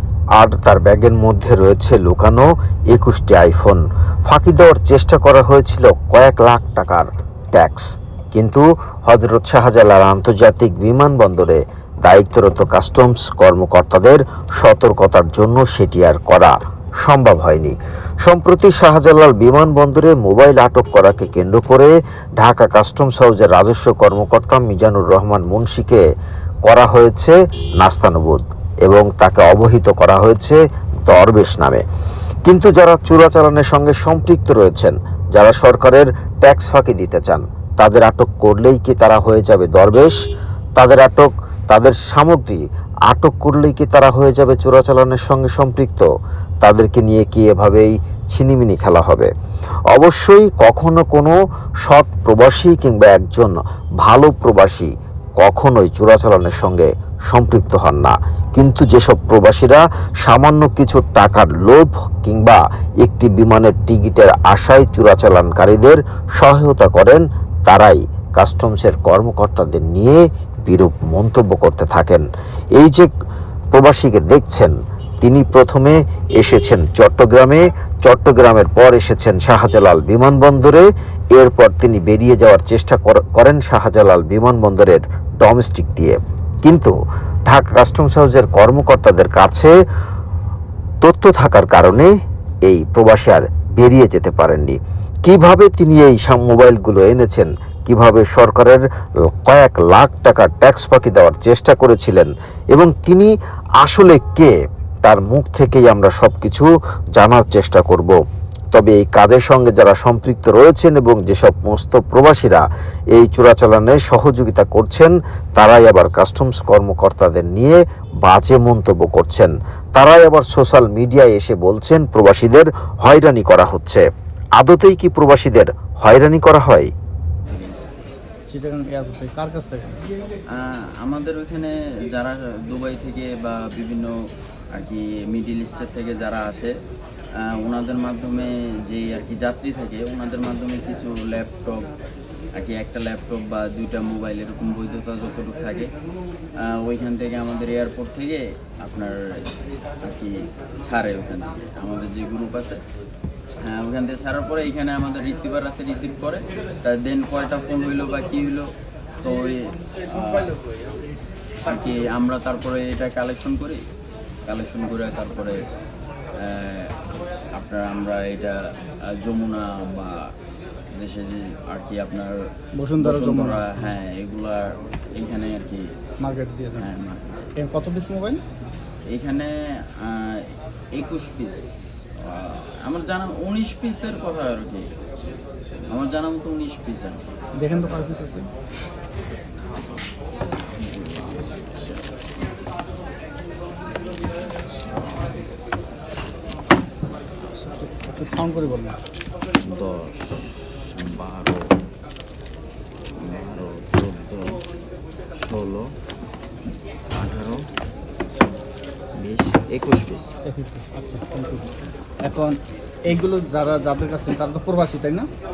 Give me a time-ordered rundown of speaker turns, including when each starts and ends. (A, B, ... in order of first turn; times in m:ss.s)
0:00.4-0:26.0 A
0:26.6-0:31.8 A
0:32.4-0:40.2 A
0:40.8-0:46.0 A
0:46.6-0:49.3 A
0:49.9-1:13.1 A
1:13.7-1:26.9 A
1:27.5-1:29.7 A
1:31.0-1:32.1 A
1:32.6-1:48.2 A
1:48.7-2:04.0 A
2:04.6-2:06.9 A
2:07.5-2:08.2 B
2:08.5-2:10.0 C
2:10.5-2:14.1 B
2:14.7-2:16.7 B
2:17.4-2:21.9 B
2:22.5-2:25.9 B
2:26.6-2:32.8 B
2:33.6-2:38.7 B
2:39.2-2:40.6 B
2:41.6-2:43.8 B
2:44.4-2:45.6 B
2:46.3-2:47.0 B
2:47.5-2:50.3 B
2:50.9-2:55.9 B
2:52.8-2:53.7 C
2:56.2-2:56.9 C
2:56.8-2:57.5 B
2:57.6-2:58.4 C
2:59.1-3:04.9 B
3:05.9-3:07.3 B
3:07.6-3:08.5 C
3:10.7-3:12.2 B
3:14.4-3:15.4 B
3:17.4-3:18.4 B
3:18.1-3:19.0 C
3:19.6-3:21.8 B
3:23.1-3:24.6 B
3:25.4-3:25.9 B
3:27.1-3:27.6 B
3:29.2-3:30.3 B
3:30.4-3:35.3 C